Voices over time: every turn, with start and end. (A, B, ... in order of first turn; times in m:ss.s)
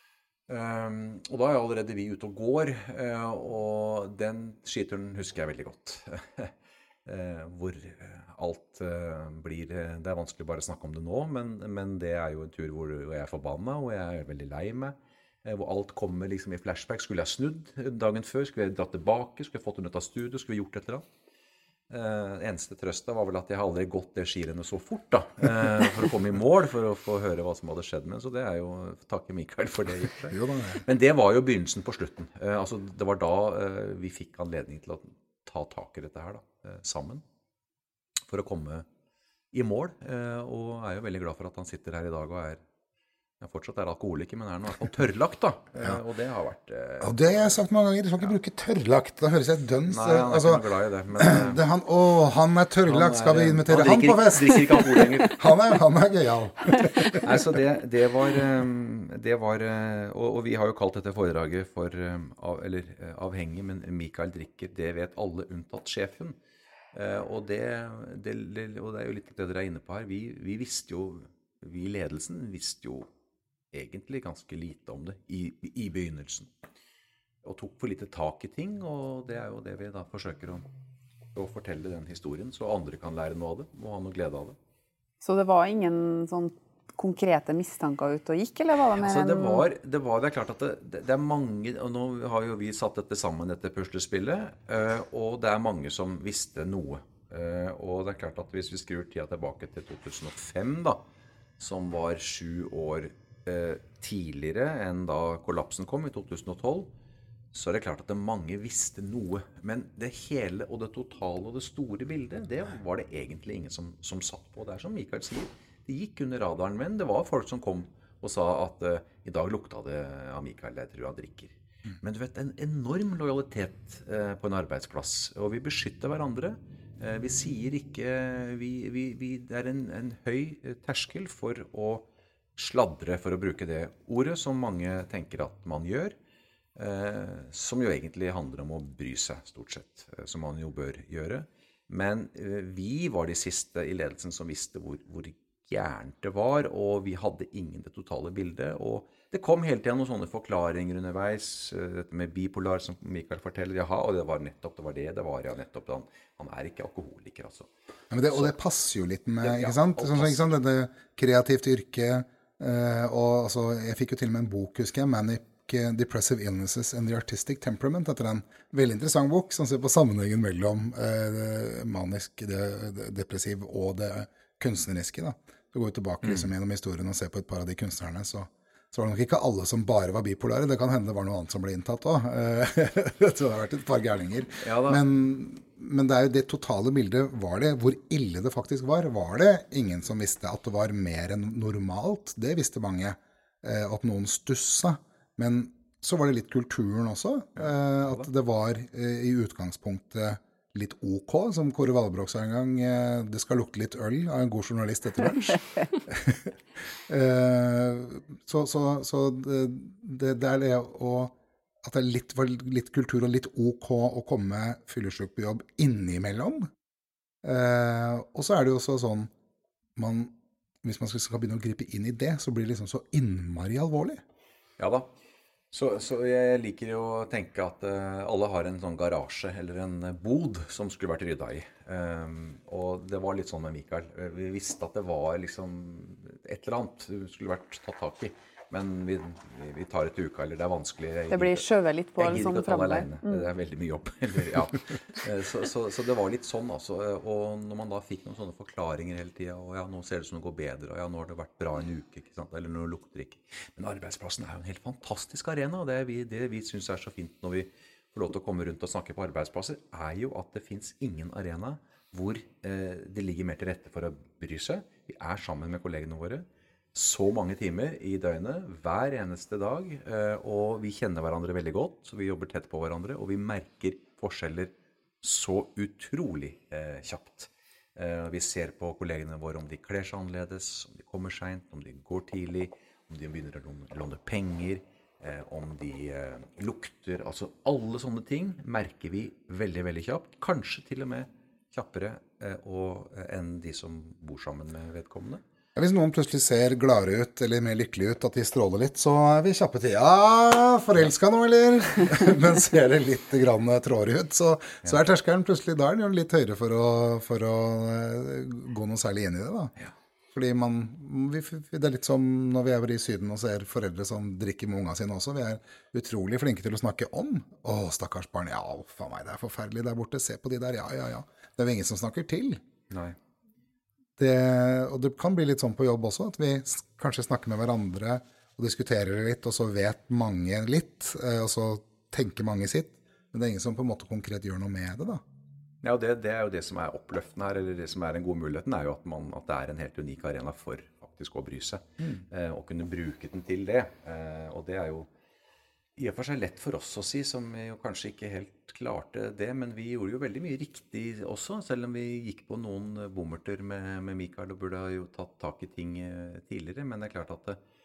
0:00.5-0:06.5 A
0:07.0-0:21.0 A
0:21.9-0:37.2 A
0:30.3-0:30.8 B
0:38.3-0:38.8 A
0:39.5-0:42.6 A
0:43.4-0:47.6 A
0:47.0-0:50.6 B
0:49.9-0:51.6 A
0:51.2-0:57.4 B
0:52.8-0:55.6 A
0:57.0-1:06.4 A
1:06.9-1:13.0 A
1:13.7-1:16.5 A
1:17.4-1:20.6 A
1:21.3-1:24.6 A
1:25.2-1:29.6 C
1:29.0-1:41.0 A
1:41.6-1:46.9 A
1:47.5-2:16.1 A
2:16.8-2:37.7 A
2:38.1-3:26.6 B
2:39.4-2:40.6 A
2:56.2-2:56.5 A
3:04.6-3:05.0 A
3:17.6-3:18.2 A
3:27.1-3:36.7 B
3:37.4-3:39.3 B
3:40.0-3:44.2 B
3:44.8-3:45.1 A
3:45.7-4:01.6 A
4:01.3-4:03.4 C
4:02.2-4:55.4 A
4:55.8-5:09.7 B
5:10.3-5:22.6 B
5:22.9-5:23.2 A
5:24.2-5:35.2 B
5:35.8-5:45.1 A
5:46.0-5:57.6 A